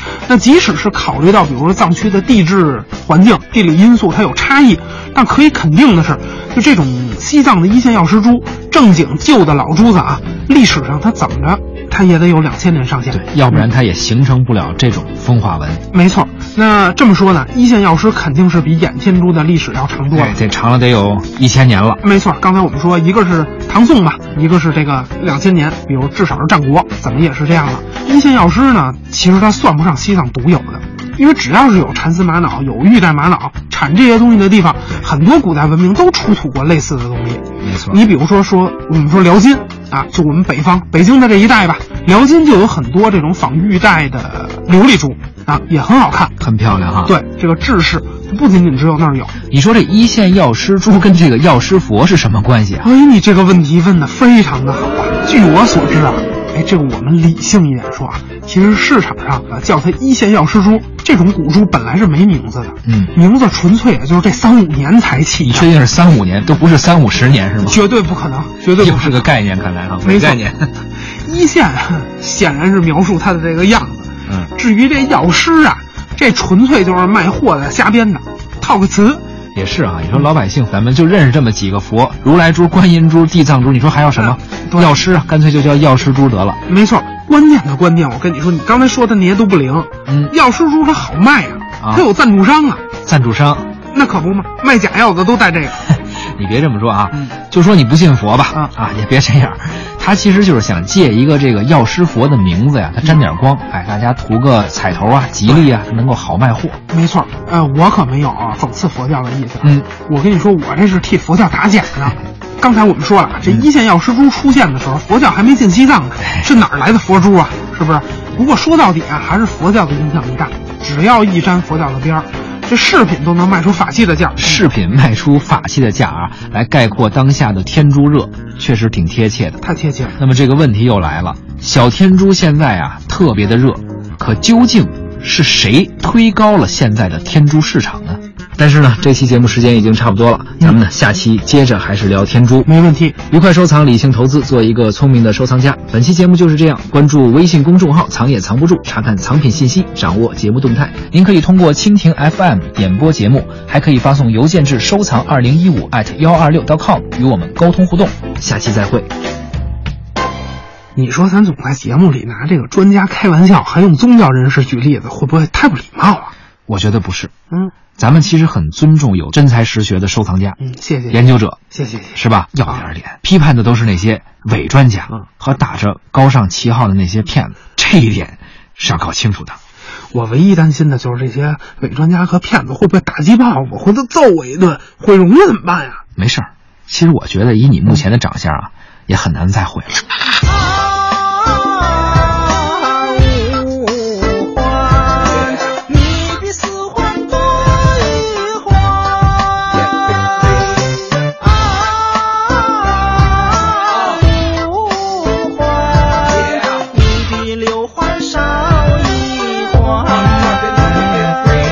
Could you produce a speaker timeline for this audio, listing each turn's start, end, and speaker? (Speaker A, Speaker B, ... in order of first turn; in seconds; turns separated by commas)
Speaker A: 0.2-13.7, Speaker B: 13.1-15.8, Speaker A: 15.9-20.4, Speaker B: 20.1-22.0, Speaker A: 22.0-46.3, Speaker B: 37.6-38.0, Speaker B: 46.4-47.1, Speaker A: 47.0-49.3, Speaker B: 49.5-52.9, Speaker A: 52.8-65.7, Speaker B: 62.8-63.1, Speaker B: 65.4-67.8, Speaker A: 67.6-69.3, Speaker B: 68.8-70.7, Speaker A: 70.0-70.5, Speaker A: 71.2-79.2, Speaker B: 79.5-86.6, Speaker A: 84.2-85.0, Speaker A: 86.7-92.8, Speaker B: 90.1-90.3, Speaker B: 93.0-93.7, Speaker A: 93.9-95.8, Speaker B: 96.0-106.8, Speaker A: 106.9-124.6, Speaker B: 109.6-109.9, Speaker B: 124.4-129.6, Speaker A: 129.6-130.2, Speaker B: 130.2-142.7, Speaker A: 142.6-143.2, Speaker B: 143.3-159.1, Speaker A: 160.9-166.3, Speaker B: 166.7-167.3, Speaker B: 168.0-170.6, Speaker A: 170.6-171.2, Speaker B: 171.1-171.6, Speaker A: 171.7-172.8, Speaker B: 172.1-179.6, Speaker A: 180.1-186.0, Speaker B: 186.2-190.0, Speaker C: 195.9-198.9, Speaker C: 202.3-202.8, Speaker C: 203.7-204.2, Speaker C: 206.4-210.3